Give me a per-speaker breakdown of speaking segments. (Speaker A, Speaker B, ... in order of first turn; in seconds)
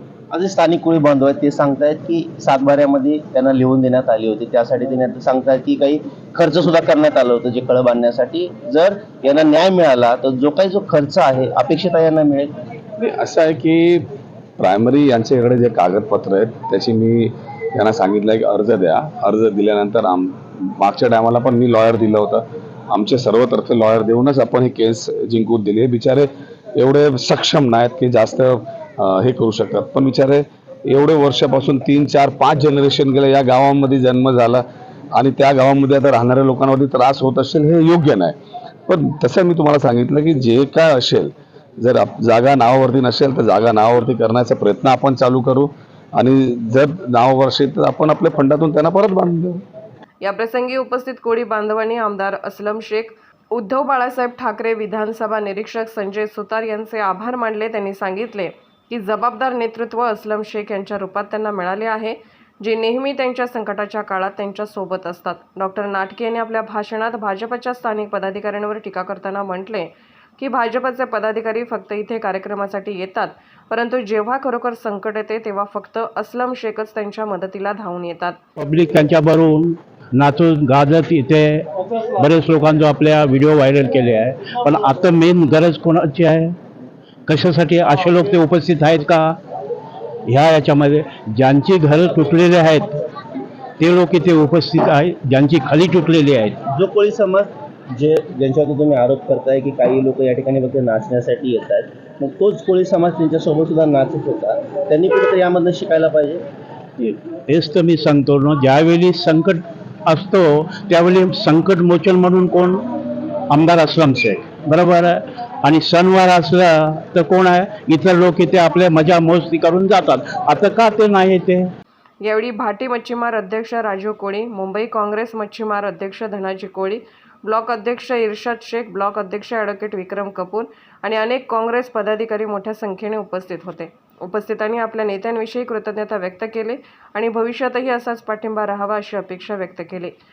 Speaker A: 0.3-12.5, 96.7-106.4
Speaker B: 13.0-14.0, 14.6-34.6, 35.2-38.3, 38.9-49.6
Speaker C: 50.2-78.4, 122.2-140.2
Speaker D: 78.6-86.6, 87.3-89.3, 90.3-92.9, 93.8-96.6, 107.0-112.8, 113.5-121.7